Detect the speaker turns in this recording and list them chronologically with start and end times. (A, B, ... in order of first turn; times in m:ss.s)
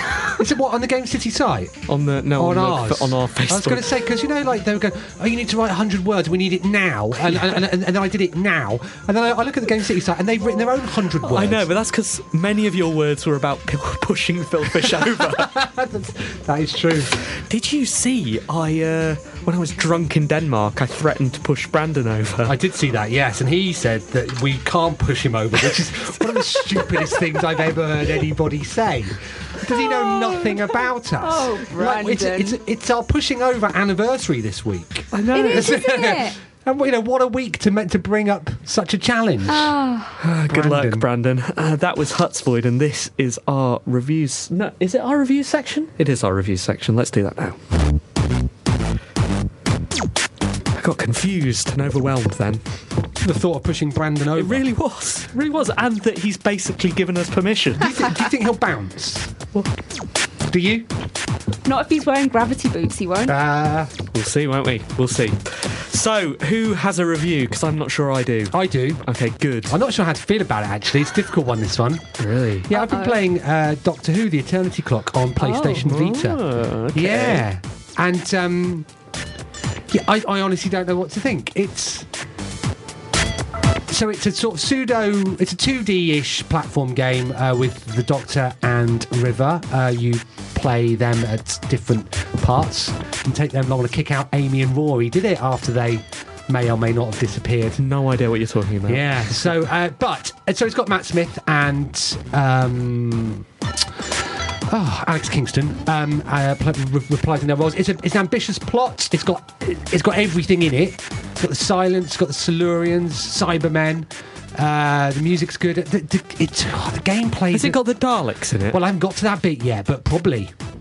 0:00.3-0:01.8 A
0:01.9-0:03.9 B
0:02.4-0:11.7 A
0:11.2-0:15.6 B
0:14.8-0:17.2 A
0:17.3-0:22.6 B
0:22.4-0:39.8 A
0:29.7-0:32.6 C
0:35.1-0:35.8 B
0:35.3-0:36.4 C
0:39.5-0:40.2 C
0:40.2-0:47.6 B
0:40.5-0:41.1 A
0:50.8-0:52.6 B
0:53.2-0:54.6 A
0:54.4-0:58.0 B
0:57.8-0:59.4 A
1:00.5-1:00.9 A
1:01.7-1:03.4 C
1:03.3-1:03.9 A
1:04.1-1:09.8 B
1:08.5-1:09.0 A
1:09.7-1:12.1 A
1:12.2-1:12.7 B
1:12.7-1:18.9 A
1:12.7-1:13.2 C
1:15.4-1:17.4 B
1:19.9-1:22.1 A
1:23.9-1:37.8 A
1:37.8-1:39.5 B
1:38.9-1:43.4 A
1:44.7-1:57.8 A
1:57.5-1:58.8 B
1:58.7-2:00.5 A